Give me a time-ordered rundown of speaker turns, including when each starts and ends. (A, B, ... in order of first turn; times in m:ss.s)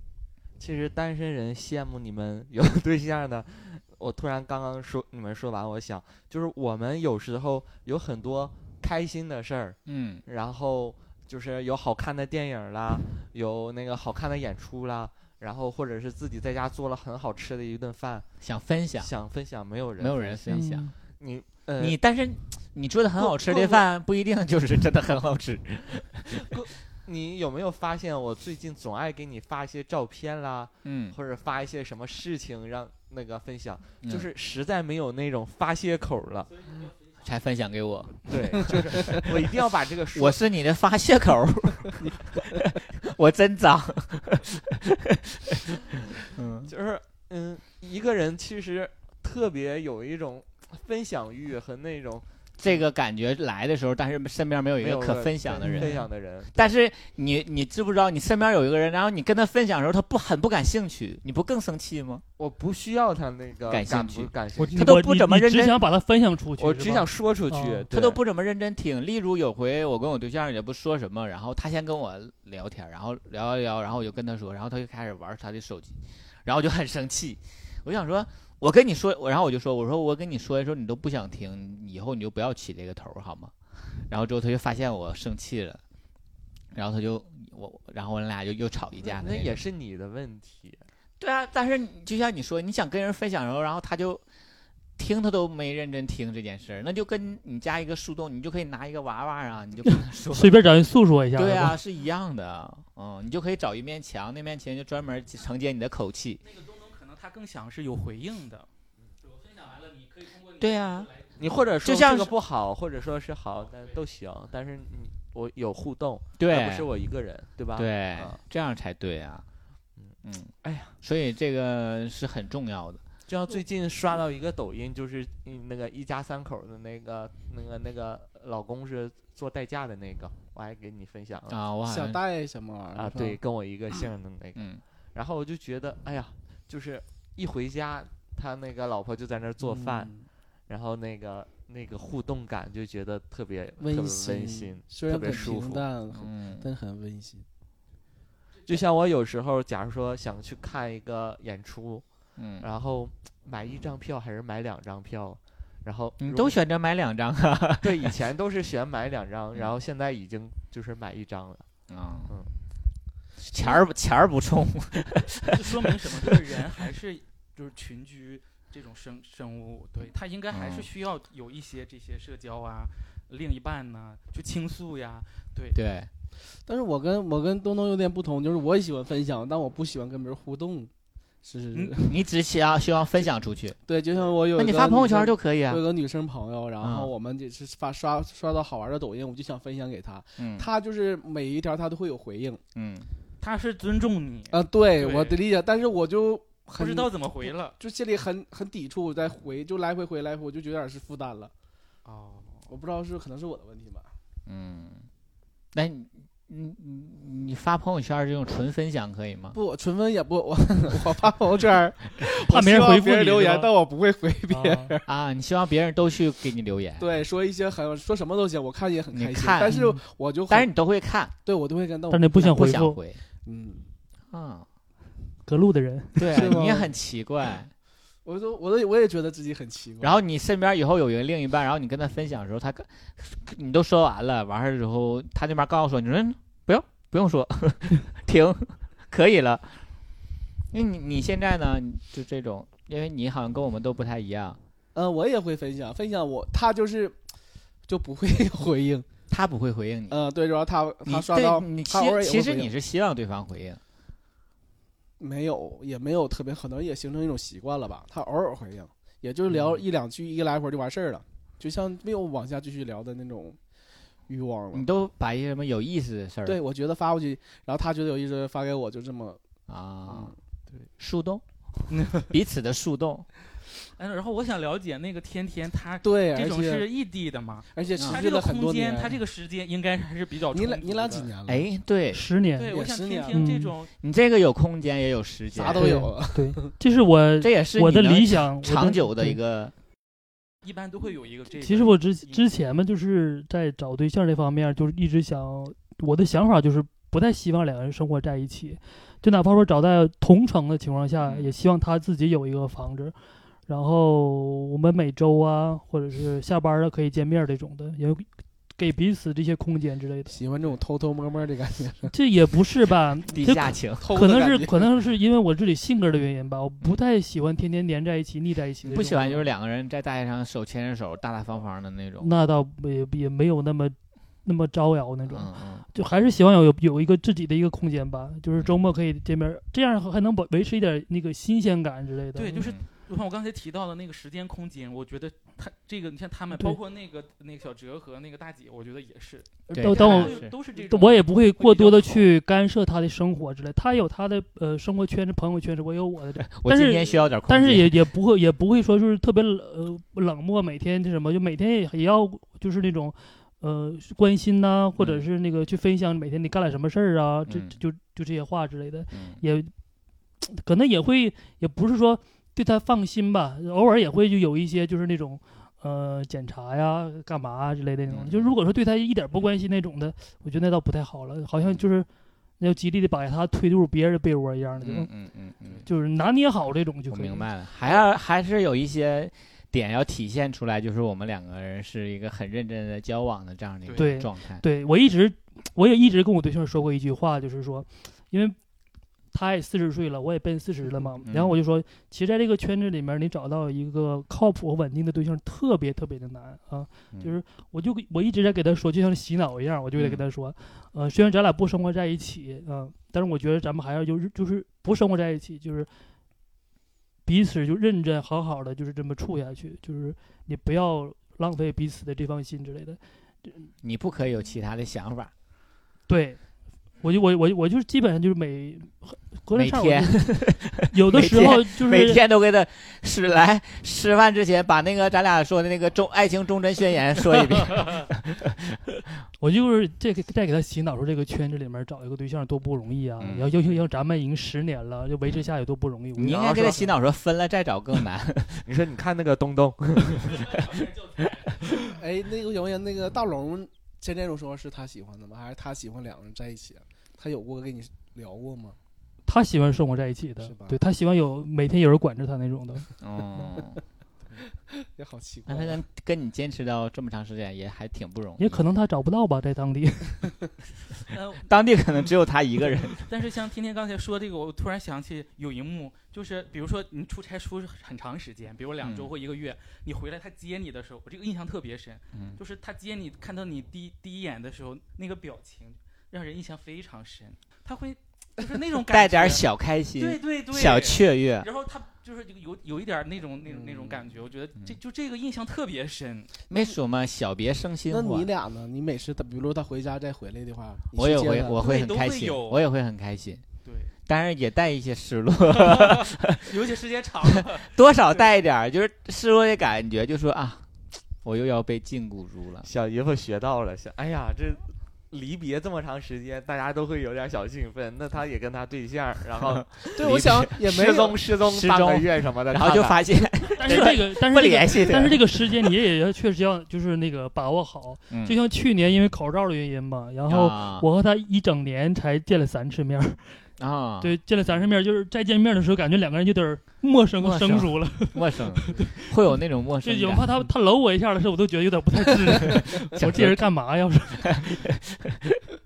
0:00.6-0:18.3 A
0:09.9-0:10.2 B
0:18.4-0:19.1 B
0:19.0-0:20.6 A
0:20.0-0:20.9 B
0:20.5-0:20.9 C
0:21.2-0:22.0 A
0:21.8-0:26.5 B
0:26.4-0:36.8 A
0:30.8-0:31.2 B
0:34.0-0:34.3 B
0:36.6-0:37.1 D
0:37.2-0:39.3 B
0:38.3-0:40.4 A
0:40.1-0:46.7 B
0:46.7-0:52.8 A
0:52.6-0:56.0 B
0:54.8-0:56.7 A
0:55.6-0:56.0 C
0:56.6-1:02.2 B
1:02.4-1:04.9 A
1:03.7-1:05.8 B
1:04.6-1:07.9 C
1:06.6-1:08.2 A
1:07.9-1:23.5 B
1:24.1-1:25.8 B
1:26.7-1:29.6 B
1:29.0-1:30.9 A
1:31.2-1:34.2 B
1:35.0-1:40.6 B
1:40.0-1:41.8 C
1:41.4-1:46.4 B
1:46.4-1:48.7 D
1:49.2-1:51.3 D
1:50.6-1:51.1 B
1:51.4-1:58.4 A
1:51.8-1:52.3 B
1:56.4-1:56.9 B
1:57.8-1:59.4 B
2:00.0-2:00.9 A
2:00.2-2:03.0 B
2:03.3-2:11.6 A
2:11.5-2:12.2 B
2:11.8-2:13.4 E
2:13.0-2:20.1 A
2:14.6-2:14.8 B
2:19.6-2:20.3 E
2:20.7-2:25.9 A
2:23.8-2:27.5 E
2:26.1-2:26.7 B
2:28.6-2:32.0 A
2:32.4-2:32.7 B
2:32.6-2:36.6 A
2:36.2-2:38.2 B
2:37.8-2:41.7 A
2:41.9-2:42.3 B
2:43.4-2:46.1 B
2:45.5-2:55.8 D
2:50.5-2:50.9 B
2:55.7-2:56.1 B
2:56.7-3:00.9 E
3:01.4-3:02.2 E
3:01.7-3:02.0 D
3:02.1-3:03.8 B
3:03.9-3:12.6 E
3:04.5-3:05.8 B
3:06.8-3:07.1 B
3:10.4-3:10.7 B
3:12.8-3:13.1 B
3:13.4-3:15.4 D
3:14.5-3:21.5 E
3:16.8-3:17.8 D
3:22.0-3:22.7 D
3:22.7-3:24.1 E
3:24.5-3:25.1 B
3:25.7-3:29.6 B
3:29.5-3:35.0 E
3:32.3-3:33.7 C
3:34.5-3:34.9 C
3:35.1-3:37.1 B
3:37.0-3:40.7 E
3:39.1-3:39.8 B
3:39.7-3:40.0 C
3:40.5-3:41.4 B
3:41.4-3:42.5 E
3:42.1-3:43.0 C
3:42.4-3:43.2 B
3:43.4-3:43.9 E
3:44.3-3:44.7 B
3:45.5-3:46.4 C
3:46.2-3:47.7 B
3:46.3-3:46.9 E
3:48.2-3:50.2 E
3:50.0-3:59.8 B
4:00.7-4:04.6 B
4:04.9-4:07.2 E
4:07.9-4:09.1 E
4:09.3-4:10.2 B
4:10.1-4:12.7 E
4:11.0-4:13.8 B
4:15.2-4:23.6 E
4:19.5-4:19.8 B
4:24.3-4:24.9 E
4:24.7-4:26.6 B
4:26.5-4:29.4 E
4:29.7-4:30.3 B
4:30.1-4:30.4 E
4:31.0-4:33.3 B
4:31.9-4:32.3 D
4:34.0-4:41.3 D
4:36.0-4:36.9 E
4:37.7-4:39.2 E
4:37.9-4:38.2 B
4:40.5-4:41.7 E
4:41.5-4:42.3 B
4:42.1-4:42.8 C
4:42.6-4:43.9 D
4:42.7-4:43.5 E
4:43.3-4:43.8 C
4:44.0-4:46.0 B
4:45.5-4:46.7 E
4:45.8-4:49.4 C
4:47.4-4:49.7 B
4:50.6-4:52.5 D
4:51.6-5:03.2 C
5:01.2-5:01.5 B
5:03.7-5:10.4 C
5:10.3-5:12.1 E
5:12.1-5:19.5 C
5:13.3-5:14.0 B
5:14.0-5:14.9 E
5:18.8-5:22.3 B
5:22.2-5:32.7 C
5:25.3-5:25.9 B
5:32.4-5:42.3 D
5:32.6-5:32.8 B
5:39.7-5:59.7 C
5:39.7-5:40.5 B
5:46.4-5:48.0 B
5:55.0-5:55.3 B
5:57.5-5:57.8 B
5:59.1-5:59.4 B
6:00.4-6:12.1 C
6:08.1-6:08.6 B
6:11.6-6:11.8 B
6:12.6-6:15.1 C
6:14.8-6:15.8 B
6:15.9-6:17.5 C
6:17.1-6:24.6 B
6:24.0-6:28.6 C
6:29.3-6:45.9 C
6:31.3-6:31.6 B
6:40.0-6:40.2 B
6:47.2-6:53.7 C
6:53.8-6:55.3 B
6:56.1-6:56.4 C
6:57.0-7:02.2 C
6:59.5-7:08.6 B
7:09.4-7:16.8 C
7:13.2-7:13.7 B
7:16.2-7:18.7 B
7:16.4-7:16.8 A
7:18.7-7:20.8 A
7:21.9-7:28.8 E
7:29.3-7:32.9 C
7:30.4-7:30.8 E
7:33.0-7:33.8 B
7:34.6-7:35.8 E
7:35.5-7:38.7 B
7:38.4-7:40.4 C
7:41.1-7:41.5 D
7:41.5-7:43.1 B
7:42.9-7:59.4 D
7:48.8-7:49.1 B
7:52.1-7:52.4 B
7:58.8-8:01.5 B
8:00.0-8:06.3 D
8:03.4-8:04.1 E
8:06.5-8:08.3 B
8:07.9-8:11.6 E
8:10.9-8:13.4 B
8:11.6-8:12.6 D
8:13.6-8:13.9 D
8:14.1-8:16.6 B
8:15.5-8:18.3 D
8:17.3-8:20.7 B
8:21.2-8:22.7 B
8:22.6-8:29.9 A
8:29.9-8:31.2 E
8:30.0-8:30.5 B
8:30.5-8:33.1 A
8:31.4-8:35.7 B
8:33.6-8:43.4 C
8:38.1-8:38.4 B
8:40.3-8:40.9 B
8:43.6-8:44.7 B
8:44.0-8:49.2 C
8:47.2-8:50.5 B
8:49.8-8:54.4 C
8:53.0-8:53.5 B
8:54.2-8:55.4 B